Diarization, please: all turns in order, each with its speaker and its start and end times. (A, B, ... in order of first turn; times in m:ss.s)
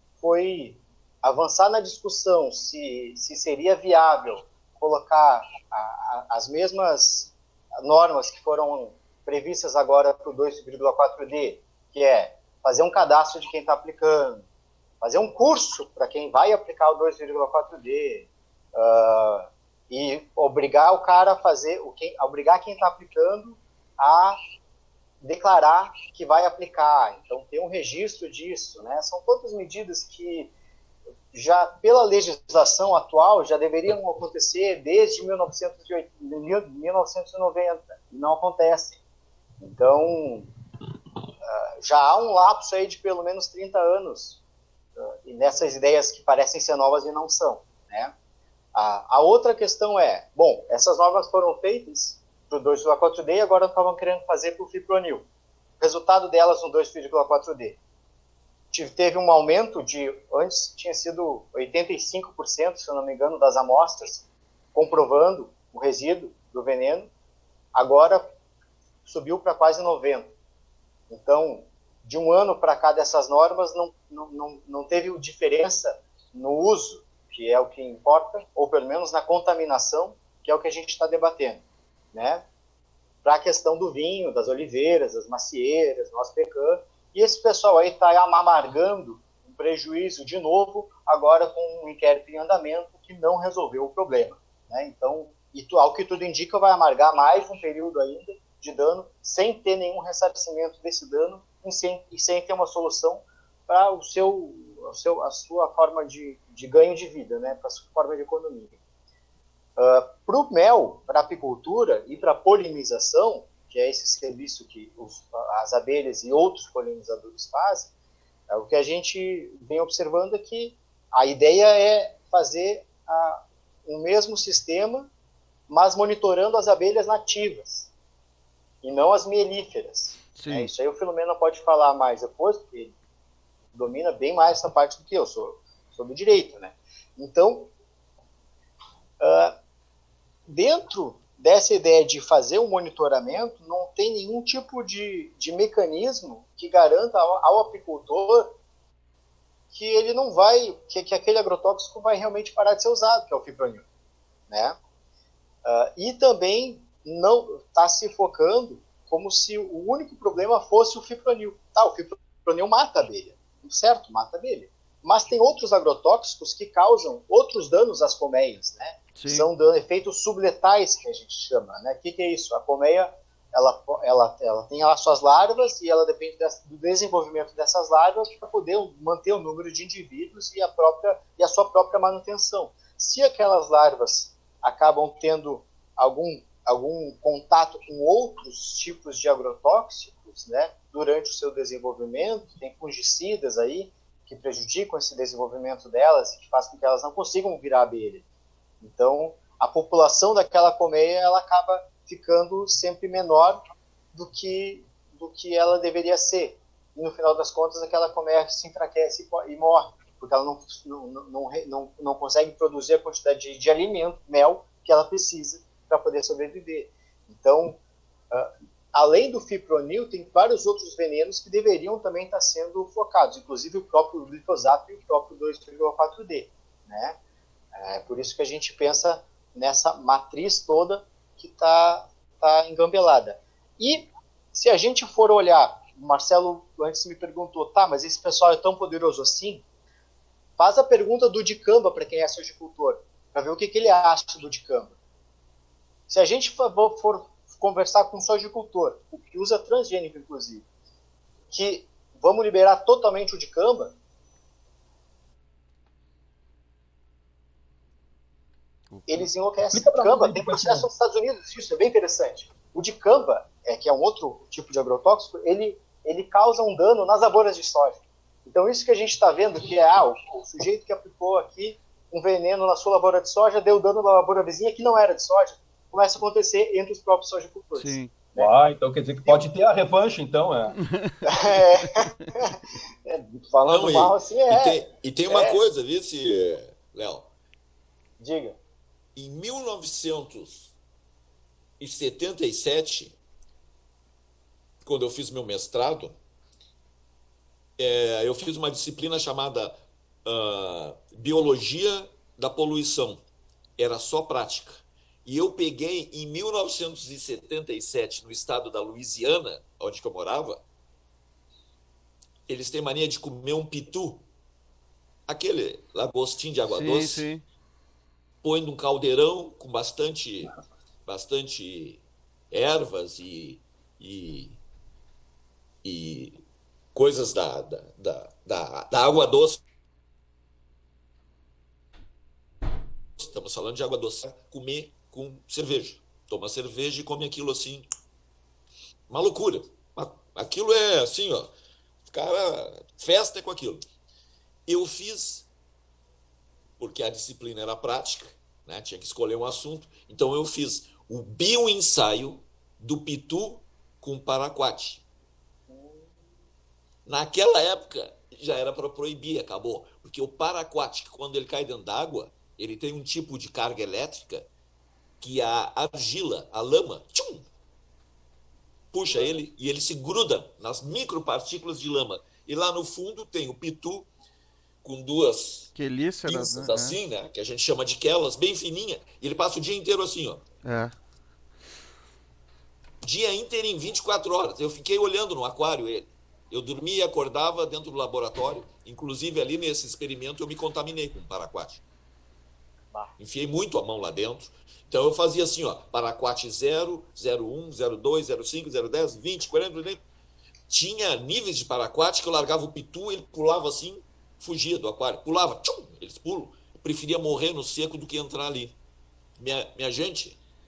0:00.2-0:14.4 A
0:15.0-0:24.4 A
0:25.2-0:30.5 A
0:31.3-0:39.0 A
0:39.6-0:40.5 A
0:41.4-0:44.4 A
0:45.0-0:48.1 A
0:48.8-0:55.3 A
0:55.8-0:57.8 A
0:58.7-1:07.1 A
1:07.7-1:08.3 A
1:09.1-1:10.3 A
1:11.1-1:22.4 A
1:23.2-1:48.8 A
1:49.8-1:57.9 A
1:58.5-2:05.1 A
2:05.7-2:07.9 A
2:08.8-2:13.0 A
2:10.4-2:10.7 B
2:13.7-2:17.7 A
2:19.2-2:19.6 A
2:20.5-2:28.6 A
2:29.7-2:33.8 A
2:34.5-2:34.8 A
2:35.6-3:18.2 A
2:49.2-2:49.5 B
3:18.8-3:23.6 A
3:24.1-3:37.8 A
3:38.3-3:47.2 A
3:47.8-3:59.6 A
4:00.6-4:05.0 A
4:06.1-4:10.7 A
4:11.5-4:14.0 A
4:18.9-4:19.3 B
4:19.1-4:38.5 A
4:19.7-4:20.9 C
4:37.8-4:38.1 B
4:38.4-4:40.8 C
4:40.8-4:41.4 B
4:41.2-4:45.6 A
4:43.7-4:47.3 D
4:48.2-4:48.6 A
4:49.2-4:50.7 D
4:51.8-4:53.2 D
4:54.8-4:56.2 D
4:57.8-5:03.2 D
5:03.8-5:10.6 D
5:12.5-5:14.2 D
5:15.3-5:17.3 D
5:16.7-5:17.4 B
5:18.4-5:24.6 D
5:25.8-5:26.4 D
5:27.0-5:29.6 D
5:33.2-5:37.9 D
5:39.1-5:41.5 D
5:42.1-5:43.8 D
5:44.7-5:45.5 D
5:46.8-5:55.0 D
5:55.7-5:56.1 A
5:57.1-6:04.5 D
6:05.2-6:07.5 D
6:08.9-6:14.1 D
6:09.1-6:09.4 A
6:14.8-6:15.7 D
6:15.8-6:17.0 B
6:16.2-6:20.4 D
6:20.6-6:20.9 B
6:23.0-6:31.8 D
6:33.2-6:40.0 D
6:40.7-6:48.8 D
6:49.4-6:50.4 D